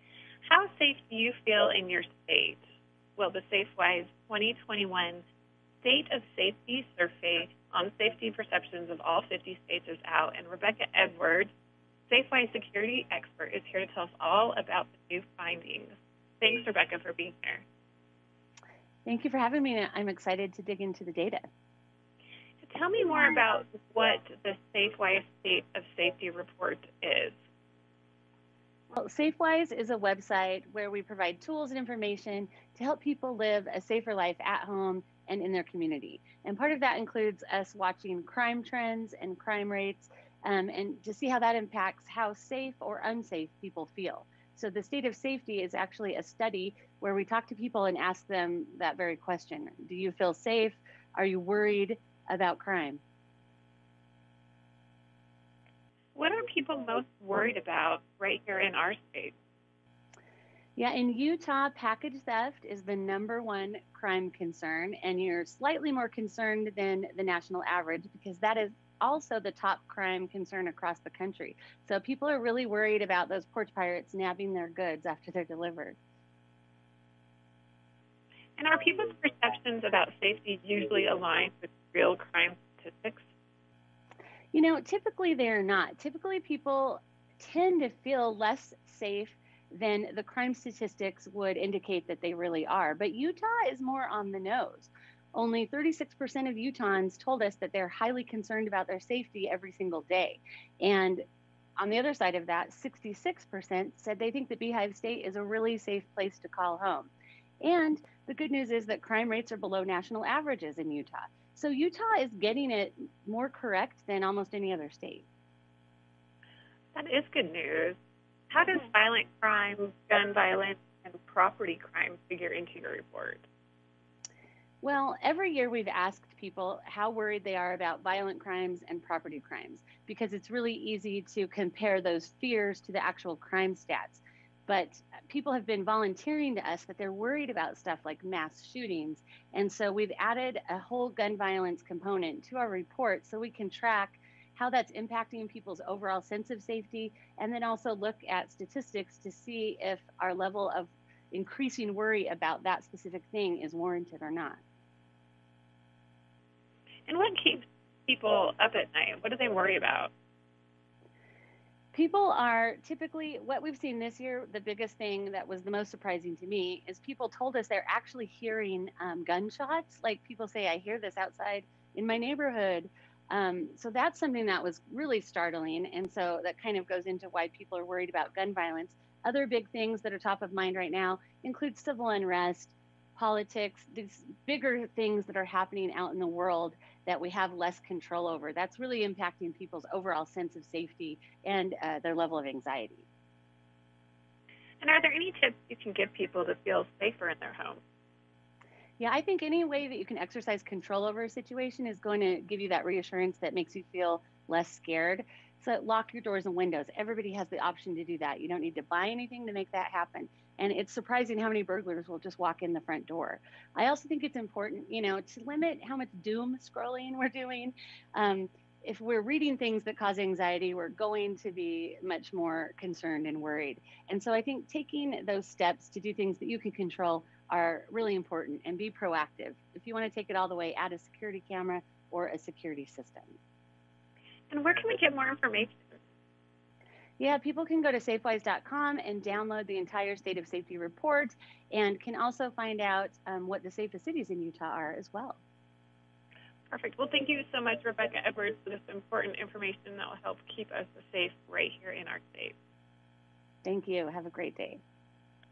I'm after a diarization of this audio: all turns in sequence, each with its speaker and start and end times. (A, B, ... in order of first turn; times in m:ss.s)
0:00.4-0:02.6 A
0:03.2-0:05.2 A
0:05.8-0:11.5 A
0:12.1-0:17.6 A
0:19.0-0:21.4 B
0:22.6-0:27.4 A
0:28.9-0:53.0 B
0:56.1-0:59.3 A
1:00.8-1:16.0 B
1:18.6-1:23.2 A
1:24.5-1:41.2 B
1:41.8-1:55.3 B
1:56.9-1:58.0 A
1:58.5-2:03.4 A
2:04.8-2:34.6 B
2:37.1-2:40.1 A
2:41.9-3:13.1 B
3:14.8-3:17.8 A
3:19.0-3:53.4 B
3:54.5-3:56.0 A
3:57.2-4:05.4 B
4:06.7-4:12.5 A
4:13.6-4:14.8 B